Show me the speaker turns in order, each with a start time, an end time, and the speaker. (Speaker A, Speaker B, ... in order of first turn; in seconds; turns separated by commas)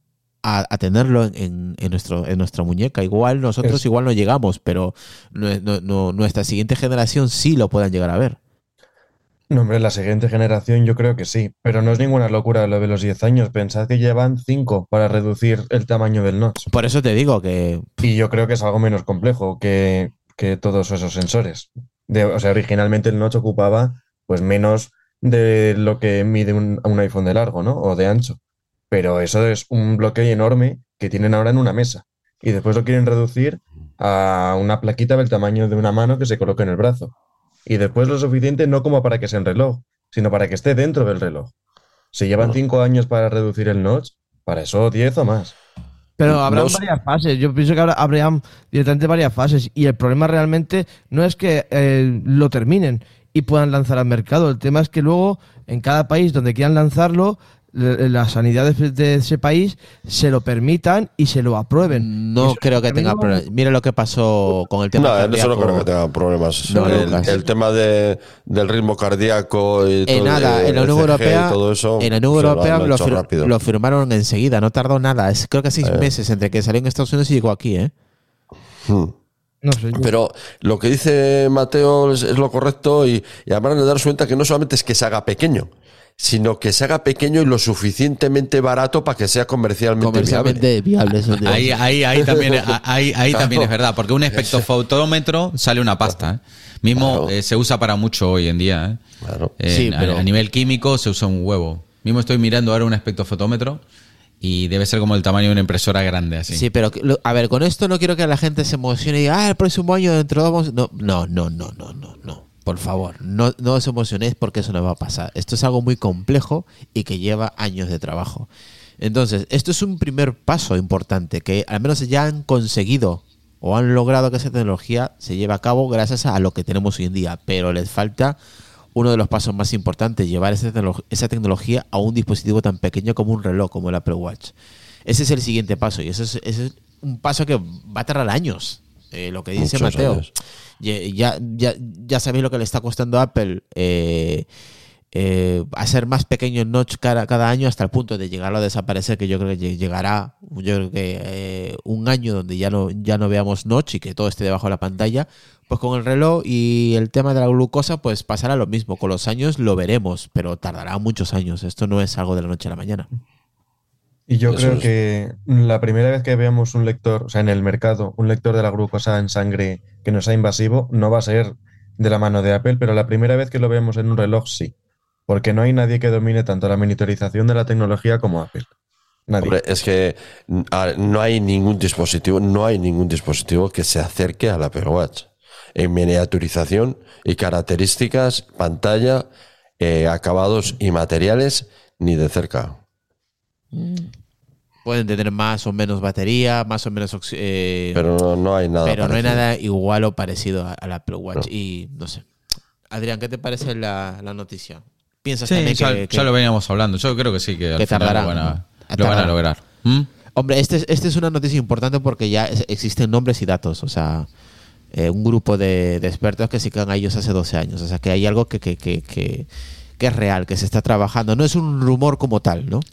Speaker A: 0.4-8.4, Speaker B: 9.5-16.6, Speaker A: 16.7-18.1, Speaker B: 18.0-28.4, Speaker B: 28.9-37.1, Speaker B: 37.6-41.5, Speaker B: 42.1-45.5, Speaker C: 46.2-63.4, Speaker D: 46.5-46.8, Speaker A: 61.9-65.9, Speaker D: 64.9-73.5, Speaker A: 66.7-67.4, Speaker C: 66.8-67.2, Speaker A: 70.0-77.9, Speaker D: 75.8-76.1, Speaker D: 78.8-79.1, Speaker C: 79.6-80.1, Speaker D: 79.9-90.6, Speaker A: 90.0-91.7, Speaker E: 91.4-99.0, Speaker D: 92.2-92.6, Speaker D: 93.3-93.7, Speaker D: 94.3-94.6, Speaker D: 96.9-97.3, Speaker D: 99.2-99.5, Speaker E: 99.6-103.8, Speaker A: 99.7-100.2, Speaker E: 104.4-106.6, Speaker A: 106.5-128.4, Speaker A: 128.9-134.5, Speaker A: 135.1-140.3, Speaker D: 139.6-140.3, Speaker A: 140.8-144.5, Speaker A: 145.1-163.1, Speaker B: 164.3-174.7, Speaker D: 164.5-164.8, Speaker B: 175.3-178.7, Speaker B: 179.3-179.6, Speaker D: 179.4-189.2, Speaker D: 189.8-192.8, Speaker A: 193.7-194.1, Speaker A: 194.8-198.0, Speaker D: 197.9-199.4, Speaker A: 198.8-202.2, Speaker A: 202.9-206.3, Speaker E: 205.5-210.1, Speaker A: 207.8-209.3, Speaker A: 210.3-214.3, Speaker A: 214.9-219.5, Speaker A: 220.0-222.8